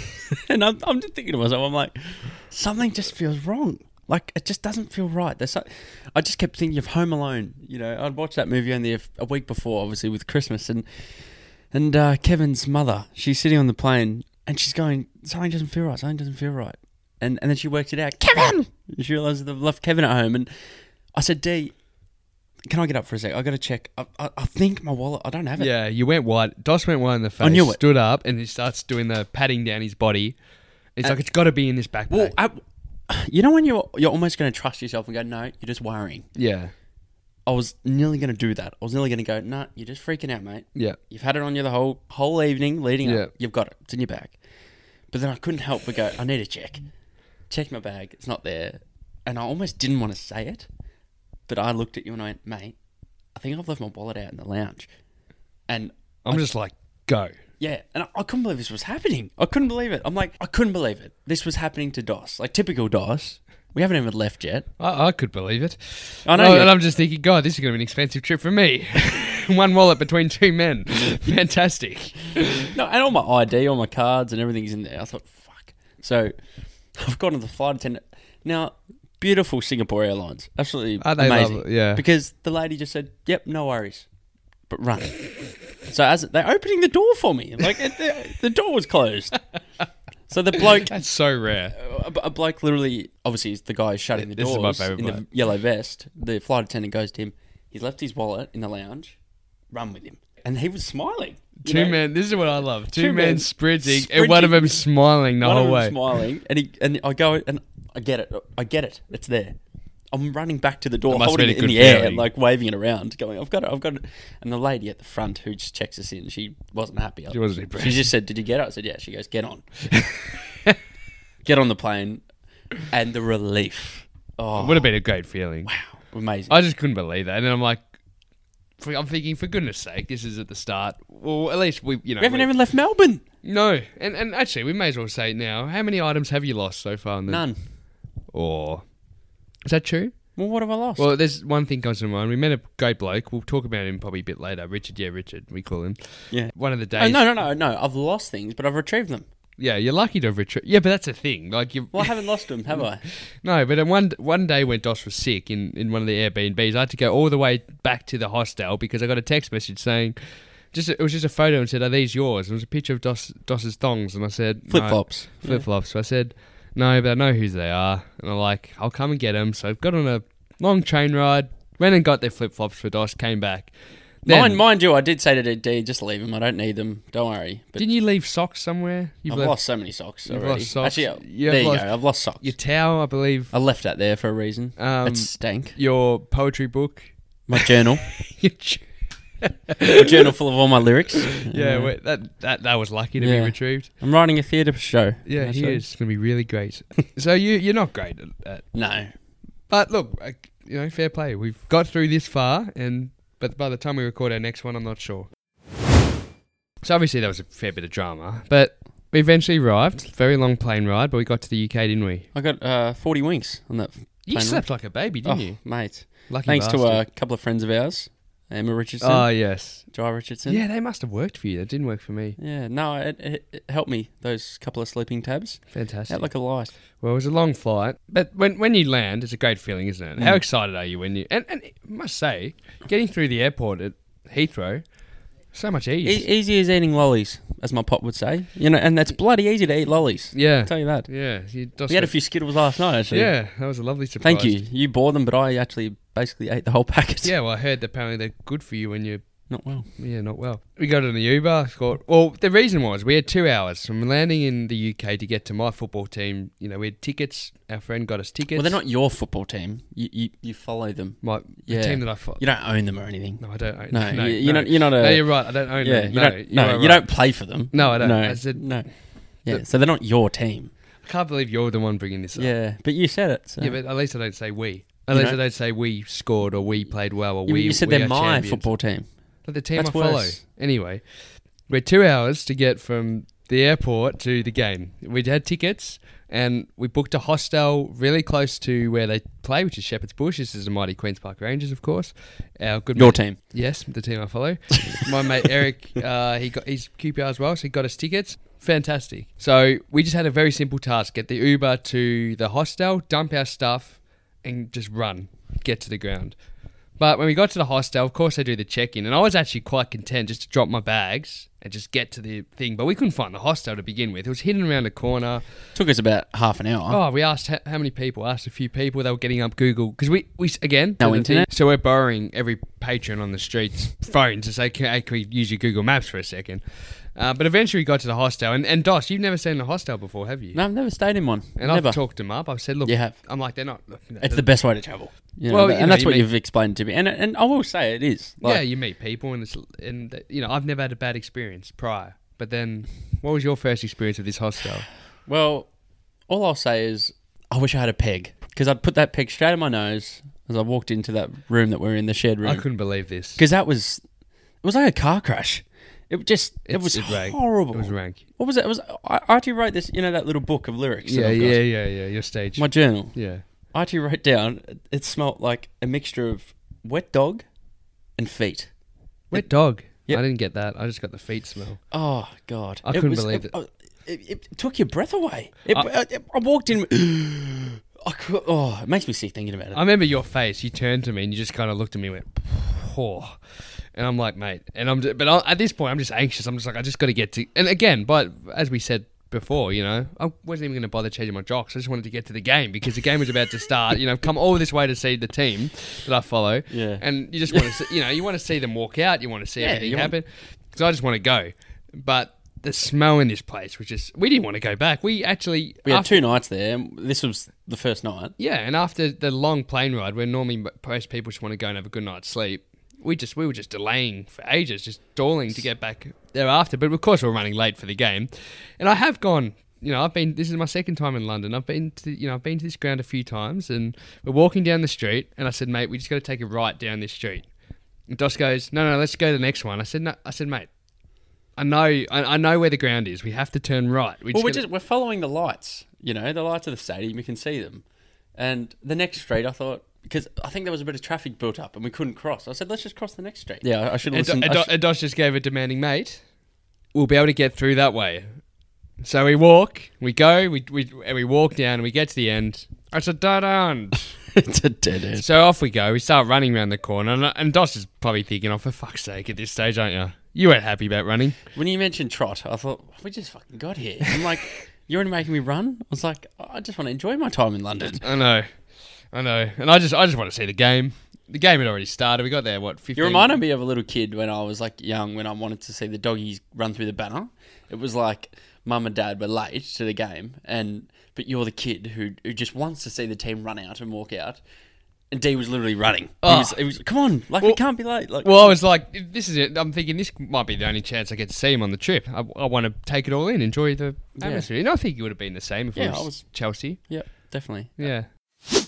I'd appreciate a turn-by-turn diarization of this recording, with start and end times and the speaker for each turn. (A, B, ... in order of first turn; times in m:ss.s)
0:00.3-0:20.5 A
0:21.1-0:21.7 A
0:22.7-0:25.7 A
0:25.6-0:30.4 B
0:27.4-0:27.8 A
0:31.0-0:32.4 B
0:32.1-0:36.3 A
0:36.4-0:36.7 B
0:37.5-0:44.4 A
0:43.0-0:43.3 B
0:45.1-0:46.8 A
0:47.5-0:50.7 A
0:51.5-0:52.8 A
0:53.4-0:54.9 A
0:55.7-0:56.4 A
0:56.2-0:57.3 B
0:57.6-1:04.7 A
1:04.8-1:12.7 B
1:06.3-1:06.8 A
1:12.6-1:16.3 A
1:16.9-1:24.1 A
1:21.0-1:22.0 B
1:24.7-1:29.4 A
1:30.3-1:31.0 A
1:30.6-1:31.8 B
1:31.8-1:39.2 A
1:34.2-1:35.2 B
1:39.7-1:42.0 A
1:41.6-1:46.0 B
1:42.9-1:44.8 A
1:45.4-1:49.6 A
1:50.1-2:00.3 A
1:51.1-1:52.3 B
1:57.3-1:58.1 B
2:01.4-2:02.2 A
2:02.8-2:04.9 A
2:04.6-2:05.7 B
2:05.7-2:06.6 A
2:06.5-2:07.8 B
2:08.8-2:12.5 B
2:12.2-2:13.2 A
2:13.4-2:17.5 B
2:17.3-2:17.6 A
2:18.3-2:18.9 B
2:19.6-2:20.2 B
2:20.4-2:21.1 A
2:21.0-2:27.3 B
2:26.3-2:29.3 A
2:29.6-2:40.2 B
2:31.9-2:33.0 A
2:40.7-2:53.7 B
2:44.7-2:45.7 A
2:54.2-2:54.6 B
2:54.2-2:57.9 A
2:57.8-2:59.6 B
2:59.3-3:02.6 A
3:00.2-3:03.5 B
3:03.5-3:05.8 A
3:04.8-3:08.9 B
3:07.5-3:08.1 A
3:09.4-3:10.3 B
3:09.9-3:11.9 A
3:11.3-3:13.9 B
3:13.2-3:15.8 A
3:15.3-3:18.6 B
3:18.7-3:19.1 A
3:19.7-3:25.3 B
3:26.8-3:32.3 B
3:32.3-3:34.7 A
3:34.3-3:35.6 B
3:35.2-3:40.6 A
3:36.3-3:37.0 B
3:39.0-3:39.8 B
3:40.5-3:42.4 B
3:42.4-3:46.7 A
3:45.7-3:46.3 B
3:46.9-3:54.8 B
3:50.2-3:50.4 A
3:55.5-3:56.3 B
3:56.0-4:01.1 A
4:00.3-4:02.1 B
4:01.9-4:03.3 A
4:03.1-4:04.6 B
4:04.2-4:07.3 A
4:07.2-4:09.3 B
4:09.5-4:09.9 A
4:09.9-4:18.8 B
4:18.5-4:28.9 A
4:21.2-4:22.4 B
4:23.4-4:27.1 B
4:27.7-4:28.7 B
4:29.4-4:30.7 A
4:31.0-4:32.5 B
4:32.4-4:33.8 A
4:33.6-4:38.7 B
4:35.1-4:35.4 A
4:37.5-4:39.1 A
4:39.4-4:41.0 B
4:39.8-4:40.4 A
4:41.7-5:06.4 B
4:53.0-4:53.4 A
5:07.0-5:15.4 B
5:15.8-5:17.0 A
5:16.9-5:26.6 B
5:21.0-5:21.5 A
5:27.2-5:30.6 B
5:30.5-5:32.0 A
5:31.6-5:34.5 B
5:32.8-5:33.2 A
5:34.2-5:38.6 A
5:35.5-5:36.3 B
5:38.4-5:44.9 B
5:45.3-5:45.7 A
5:46.3-5:52.7 A
5:52.4-5:53.4 B
5:53.4-5:54.0 A
5:54.6-6:01.6 A
5:56.7-5:58.2 B
6:01.1-6:03.4 B
6:02.6-6:03.2 A
6:03.7-6:07.5 A
6:08.2-6:08.7 A
6:09.3-6:11.8 B
6:11.9-6:19.8 A
6:12.8-6:13.5 B
6:19.7-6:23.4 B
6:24.0-6:46.2 B
6:39.6-6:40.1 A
6:45.8-6:48.4 A
6:48.4-7:07.5 B
7:08.1-7:10.7 B
7:11.6-7:14.6 B
7:14.3-7:17.8 A
7:18.4-7:24.7 A
7:24.1-7:26.2 B
7:26.9-7:28.3 B
7:29.0-7:34.2 B
7:34.4-7:35.3 A
7:35.2-7:41.4 B
7:41.6-7:48.0 A
7:48.0-7:48.5 B
7:49.1-7:53.4 B
7:53.0-8:04.4 A
8:05.1-8:08.6 A
8:06.2-8:06.6 B
8:08.2-8:17.2 B
8:14.2-8:14.5 A
8:15.8-8:17.9 A
8:17.8-8:18.1 B